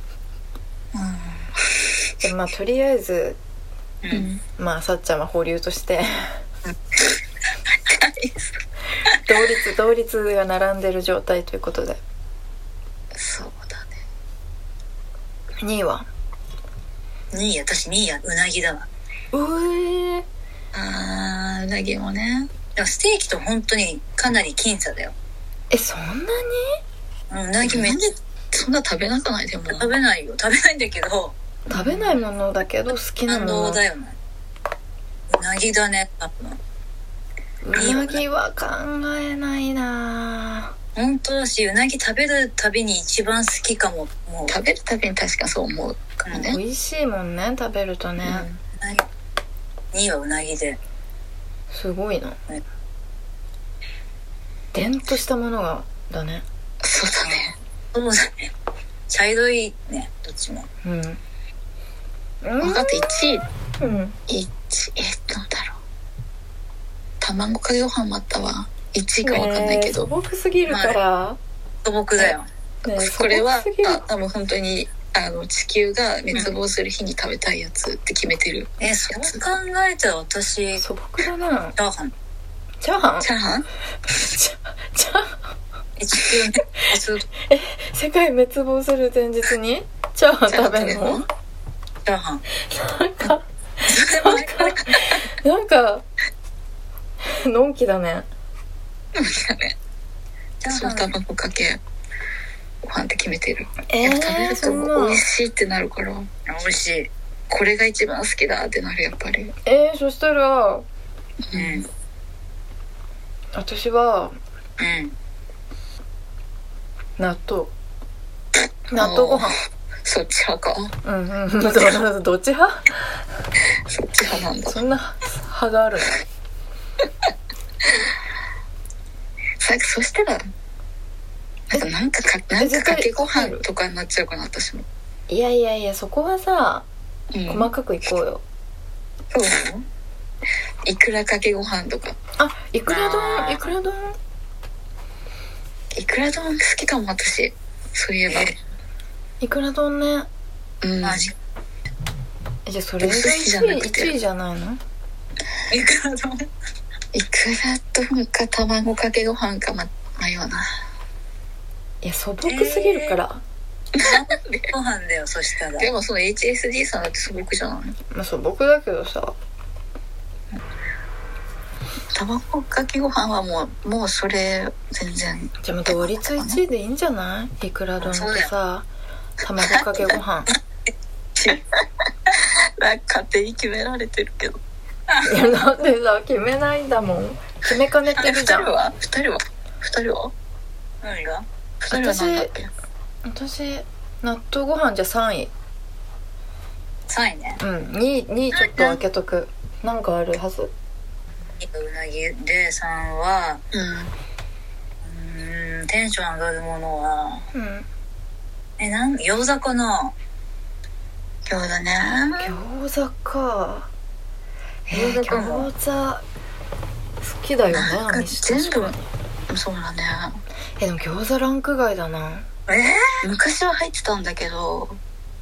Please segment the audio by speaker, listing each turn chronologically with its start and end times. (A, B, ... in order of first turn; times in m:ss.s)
0:00.9-0:01.5 A
0:02.2-0:03.4 B
0:04.0-0:04.3 A
0:04.1-0:04.4 C
0:04.6-0:06.4 B
0:07.9-0:08.4 C
0:09.1-0:12.0 B
0:13.1-0:14.0 C
0:15.6-0:16.1 B
0:17.3-0:18.9 A
0:19.3-0:20.2 B
0:20.7-0:22.5 C
0:22.8-0:25.1 A
0:25.7-0:26.8 B
0:27.3-0:28.1 A
0:27.6-0:29.9 C
0:29.7-0:31.4 A
0:31.7-0:33.8 B
0:31.7-0:32.1 C
0:33.3-0:34.1 A
0:35.3-0:36.6 A
0:37.6-0:40.7 B
0:37.7-0:38.2 A
0:41.0-0:44.6 A
0:44.5-0:46.6 C
0:46.2-0:46.6 A
0:46.3-0:48.5 B
0:48.8-0:49.0 A
0:49.9-0:50.8 A
0:51.7-0:52.4 B
0:54.7-0:56.4 B
0:56.8-0:57.6 C
0:57.9-0:58.5 A
0:59.1-1:00.7 A
1:00.8-1:01.2 B
1:02.4-1:03.2 B
1:02.6-1:03.4 C
1:03.8-1:04.2 B
1:04.3-1:05.8 C
1:07.2-1:10.1 C
1:09.2-1:11.4 B
1:10.7-1:11.0 A
1:11.8-1:12.5 A
1:12.8-1:14.0 B
1:12.9-1:19.4 C
1:18.8-1:20.8 A
1:20.8-1:21.8 B
1:21.8-1:22.1 A
1:22.8-1:23.3 B
1:23.2-1:23.7 C
1:24.1-1:25.4 B
1:26.0-1:27.2 A
1:27.5-1:31.2 B
1:30.5-1:31.2 C
1:32.0-1:32.4 A
1:32.6-1:36.0 B
1:33.9-1:35.1 A
1:37.2-1:38.3 B
1:39.1-1:39.8 C
1:40.6-1:41.1 A
1:40.7-1:41.8 C
1:42.8-1:46.3 C
1:43.9-1:45.2 B
1:46.5-1:47.1 A
1:47.5-1:49.6 C
1:49.6-1:50.9 B
1:51.5-1:51.8 C
1:51.5-1:51.9 A
1:53.5-1:54.4 B
1:54.8-1:55.1 A
1:57.2-1:57.7 B
1:58.9-1:59.6 B
1:58.9-2:00.9 C
2:01.0-2:03.2 B
2:03.7-2:04.8 C
2:04.7-2:06.2 B
2:09.6-2:10.5 C
2:11.7-2:14.9 C
2:12.6-2:13.6 B
2:15.3-2:16.9 B
2:17.3-2:17.7 C
2:17.5-2:18.4 B
2:19.3-2:19.8 C
2:20.8-2:22.2 C
2:22.4-2:24.2 B
2:22.9-2:23.6 A
2:25.9-2:28.6 C
2:29.4-2:30.3 B
2:30.8-2:31.3 C
2:31.0-2:31.3 A
2:32.7-2:34.8 B
2:33.0-2:34.1 C
2:35.7-2:36.5 A
2:37.1-2:40.7 C
2:42.0-2:43.4 B
2:42.4-2:43.2 A
2:43.9-2:44.7 C
2:44.0-2:45.9 A
2:45.8-2:48.0 C
2:48.1-2:49.4 B
2:52.1-2:56.6 C
2:55.6-2:58.9 B
2:58.0-2:58.5 A
2:59.4-3:00.5 B
2:59.6-3:00.2 C
3:01.4-3:04.6 C
3:05.1-3:05.3 A
3:05.2-3:08.7 B
3:08.1-3:10.3 C
3:11.0-3:11.4 A
3:11.8-3:12.7 C
3:11.9-3:12.5 B
3:13.2-3:15.5 B
3:17.1-3:17.6 A
3:17.6-3:20.7 B
3:18.6-3:19.0 A
3:21.6-3:23.6 A
3:23.7-3:24.1 C
3:25.0-3:27.5 A
3:27.5-3:27.9 B
3:28.8-3:30.1 A
3:31.5-3:32.5 C
3:32.4-3:33.9 B
3:34.9-3:36.2 B
3:34.9-3:35.7 A
3:37.2-3:39.0 B
3:37.7-3:39.0 C
3:39.5-3:40.4 C
3:40.8-3:42.5 B
3:42.7-3:43.2 A
3:43.2-3:45.0 C